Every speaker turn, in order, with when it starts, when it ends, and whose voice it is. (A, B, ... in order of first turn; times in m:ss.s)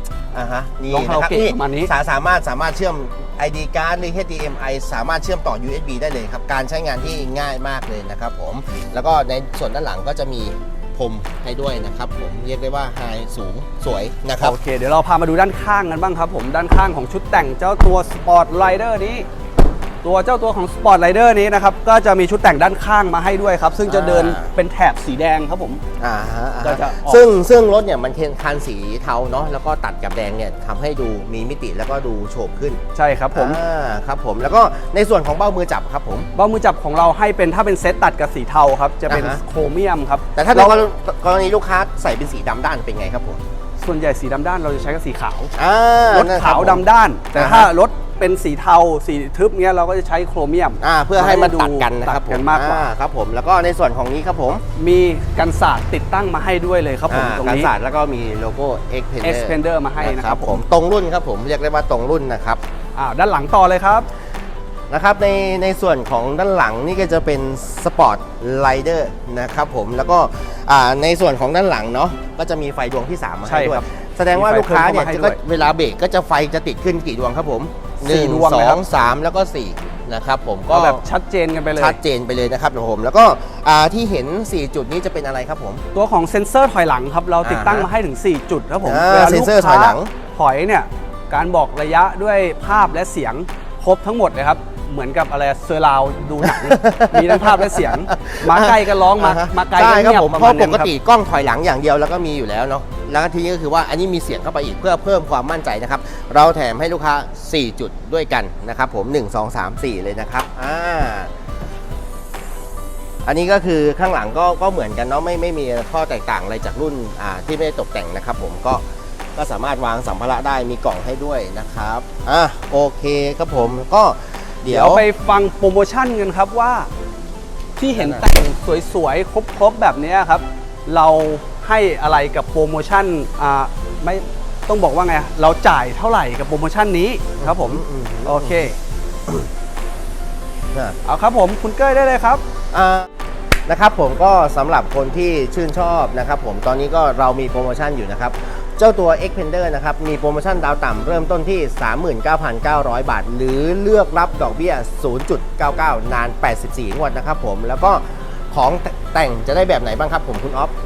0:00.3-0:14.6 A
0:00.9-0:01.9 B
0:14.4-0:19.3 B
0:20.0-0:25.8 B
0:23.9-0:24.5 A
0:26.0-0:32.8 A
0:26.6-0:27.2 B
0:33.0-0:33.6 B
0:33.3-0:36.3 A
0:36.4-0:40.8 B
0:39.1-0:39.4 A
0:40.4-0:43.4 A
0:43.8-0:45.5 B
0:45.6-0:47.7 A
0:46.1-0:52.9 B
0:50.8-0:54.6 A
0:54.8-0:57.7 B
0:57.1-1:02.6 A
0:59.2-1:00.6 B
1:03.0-1:04.1 B
1:04.9-1:21.0 A
1:13.5-1:13.8 B
1:14.3-1:15.4 B
1:18.0-1:18.8 B
1:20.7-1:22.0 B
1:21.8-1:25.8 A
1:25.9-1:40.9 B
1:27.4-1:27.9 A
1:28.8-1:30.1 A
1:36.4-1:51.3 A
1:53.2-1:58.8 A
1:59.4-2:05.1 A
2:04.7-2:06.9 B
2:07.8-2:18.8 B
2:07.9-2:08.2 A
2:17.4-2:18.7 A
2:21.0-2:22.4 B
2:22.7-2:23.1 A
2:23.7-2:40.7 A